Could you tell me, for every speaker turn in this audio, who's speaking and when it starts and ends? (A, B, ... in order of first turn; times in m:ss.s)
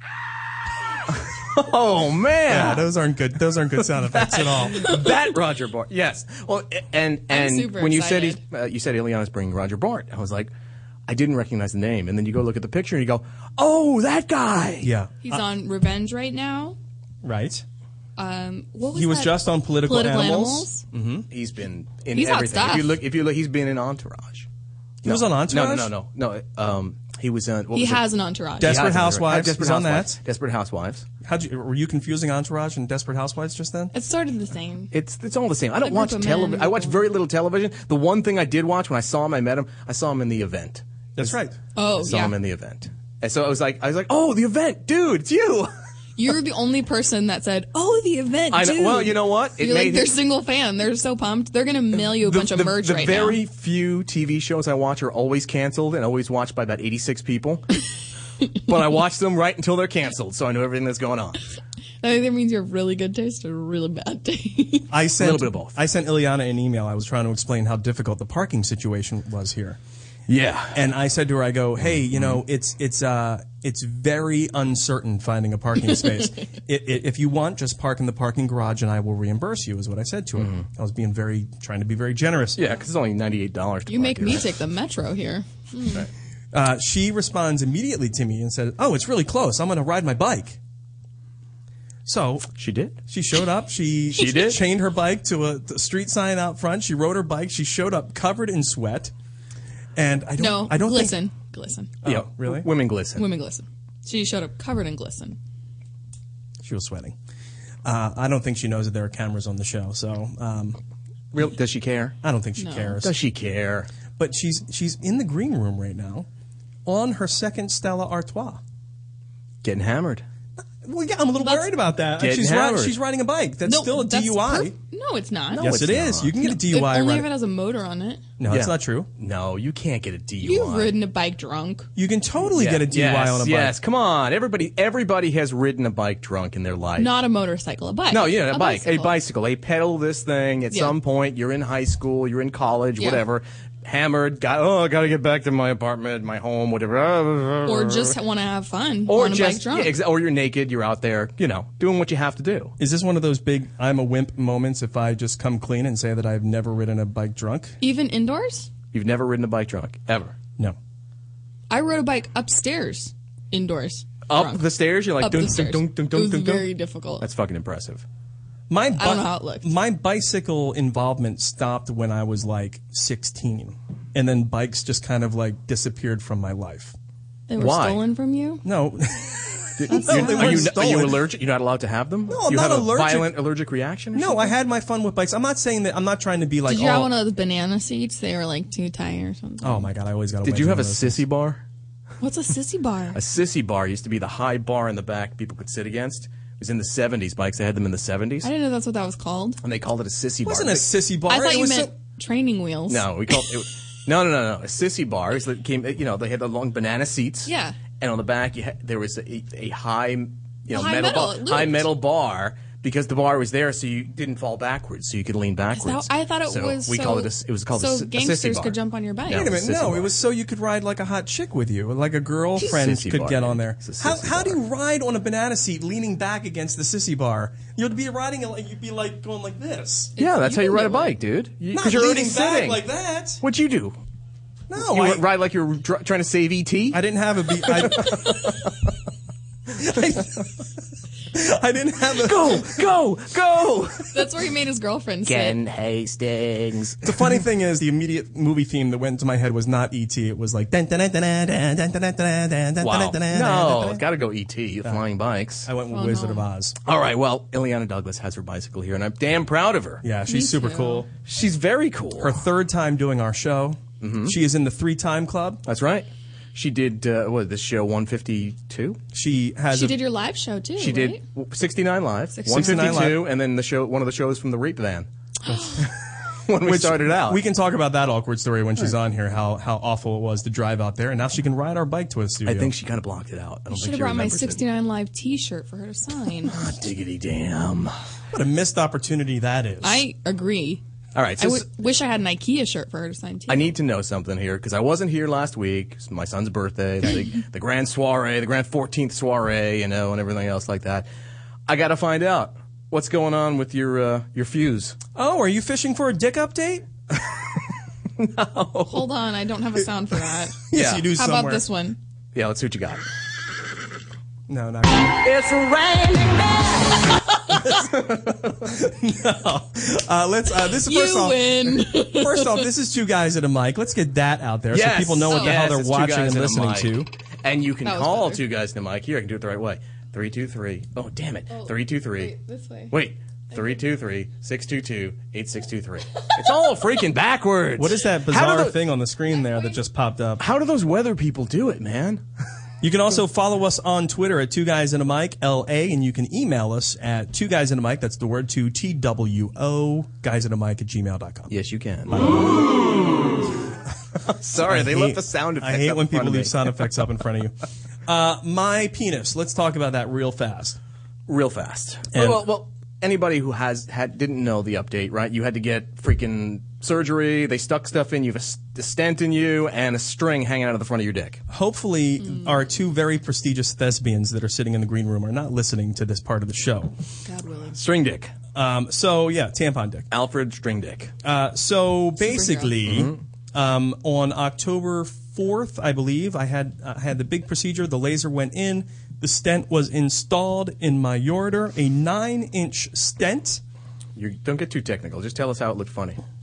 0:01.2-0:02.9 A
0:02.5-0:05.0 B
0:03.8-0:10.5 A
0:07.3-0:08.4 C
0:11.1-0:14.9 A
0:14.8-0:15.4 B
0:15.2-0:16.8 C
0:17.2-0:17.6 B
0:18.2-0:20.8 C
0:18.9-0:21.3 B
0:21.3-0:24.5 A
0:22.1-0:23.0 C
0:25.0-0:28.0 A
0:25.0-0:25.9 B
0:27.7-0:28.9 C
0:28.6-0:30.2 B
0:28.6-0:31.0 A
0:31.2-0:33.9 B
0:33.9-0:34.9 C
0:34.9-0:41.4 A
0:35.8-0:37.1 C
0:41.2-0:41.6 B
0:41.8-0:42.3 C
0:42.0-0:45.7 A
0:46.2-0:53.4 C
0:48.5-0:50.1 A
0:52.2-0:57.6 A
0:58.7-1:01.4 A
1:02.0-1:04.9 C
1:04.9-1:09.8 B
1:05.2-1:05.8 A
1:10.3-1:10.9 A
1:10.7-1:22.6 B
1:12.1-1:12.4 A
1:15.9-1:16.4 C
1:20.4-1:20.6 A
1:22.6-1:24.5 A
1:23.9-1:26.0 C
1:26.5-1:30.6 B
1:32.0-1:32.5 B
1:32.5-1:33.0 A
1:33.1-1:39.1 B
1:34.1-1:34.6 A
1:40.0-1:41.2 B
1:40.4-1:41.9 C
1:42.0-1:42.7 B
1:42.0-1:43.2 A
1:43.2-1:45.4 C
1:46.6-1:47.1 B
1:47.8-1:50.8 B
1:51.3-1:52.2 A
1:52.2-1:53.1 B
1:52.6-1:53.0 C
1:53.0-1:53.9 A
1:54.2-1:56.3 B
1:56.8-1:58.6 B
1:59.6-2:00.2 A
2:00.8-2:04.7 B
2:01.4-2:01.7 C
2:02.2-2:03.0 A
2:03.6-2:05.8 C
2:05.5-2:06.3 A
2:05.6-2:07.3 B
2:06.4-2:08.2 C
2:08.4-2:09.1 B
2:08.5-2:10.9 A
2:10.4-2:11.9 C
2:12.0-2:13.8 B
2:12.4-2:17.1 A
2:17.0-2:19.1 C
2:18.1-2:28.1 A
2:27.6-2:29.9 C
2:29.0-2:32.7 A
2:32.8-2:37.8 B
2:37.8-2:38.7 C
2:38.9-2:40.3 A
2:41.7-2:44.7 C
2:44.3-2:46.7 A
2:45.2-2:47.2 C
2:47.2-2:48.0 A
2:48.7-2:57.0 B
2:49.0-2:49.7 C
2:57.5-2:58.6 C
2:57.6-2:58.0 A
2:58.6-2:59.3 B
2:59.8-3:04.4 A
2:59.9-3:00.8 C
2:59.9-3:01.2 B
3:02.3-3:03.4 B
3:04.1-3:07.1 B
3:06.7-3:09.9 C
3:09.6-3:11.2 B
3:10.4-3:11.6 A
3:12.2-3:13.2 C
3:13.1-3:18.5 A
3:18.4-3:19.6 C
3:19.6-3:20.9 A
3:20.4-3:21.9 B
3:21.3-3:23.1 C
3:22.9-3:40.1 A
3:27.4-3:27.8 C
3:30.7-3:31.9 C
3:35.7-3:39.5 C
3:39.3-3:50.1 B
3:42.6-3:44.6 A
3:50.2-3:51.2 C
3:50.2-3:52.8 A
3:51.7-3:53.4 B
3:53.4-3:54.0 A
3:54.7-3:55.2 B
3:54.7-3:57.0 A
3:56.9-3:58.5 B
3:57.6-3:58.5 A
3:59.7-4:00.6 B
4:01.3-4:02.8 B
4:02.2-4:04.1 A
4:04.1-4:05.6 C
4:05.2-4:07.3 A
4:07.0-4:14.0 B
4:12.8-4:15.7 A
4:15.6-4:16.8 B
4:15.9-4:16.4 C
4:16.8-4:20.0 A
4:20.0-4:21.1 B
4:20.3-4:21.0 C
4:21.2-4:22.4 A
4:22.2-4:25.6 B
4:24.0-4:24.4 A
4:25.6-4:29.0 A
4:29.1-4:30.0 B
4:29.7-4:31.2 C
4:30.8-4:35.1 A
4:32.3-4:33.1 C
4:32.5-4:33.2 B
4:35.5-4:35.8 C
4:35.5-4:35.8 B
4:36.5-4:37.4 A
4:36.6-4:42.7 B
4:42.4-4:44.6 A
4:43.7-4:46.5 C
4:46.5-4:47.9 A
4:48.3-4:50.0 B
4:49.8-4:50.8 C
4:51.1-4:51.6 A
4:51.4-4:53.8 C
4:53.5-5:01.1 A
5:01.7-5:05.0 A
5:05.1-5:06.9 B
5:08.2-5:09.0 A
5:08.9-5:10.6 C
5:10.5-5:11.6 B
5:10.7-5:11.1 A
5:11.2-5:12.0 C
5:12.3-5:13.0 A
5:14.5-5:15.2 B
5:15.2-5:16.6 A
5:17.8-5:27.1 B
5:20.8-5:22.6 C
5:24.7-5:32.3 A
5:25.3-5:25.6 C
5:27.8-5:28.4 C
5:31.5-5:32.9 C
5:32.9-5:38.8 A
5:33.5-5:33.8 C
5:37.8-5:40.4 B
5:39.3-5:39.8 C
5:40.4-5:42.2 A
5:42.8-5:51.5 B
5:51.5-5:52.6 A
5:52.1-5:52.8 B
5:54.4-5:56.8 A
5:54.5-5:57.5 B
5:58.0-6:00.8 B
6:01.3-6:11.4 A
6:02.1-6:02.5 B
6:11.5-6:16.9 B
6:12.2-6:12.6 C
6:17.2-6:17.8 C
6:17.7-6:18.3 A
6:18.5-6:20.1 B
6:20.1-6:21.1 A
6:21.2-6:33.6 B
6:22.2-6:22.8 C
6:22.8-6:23.2 A
6:34.2-6:36.2 A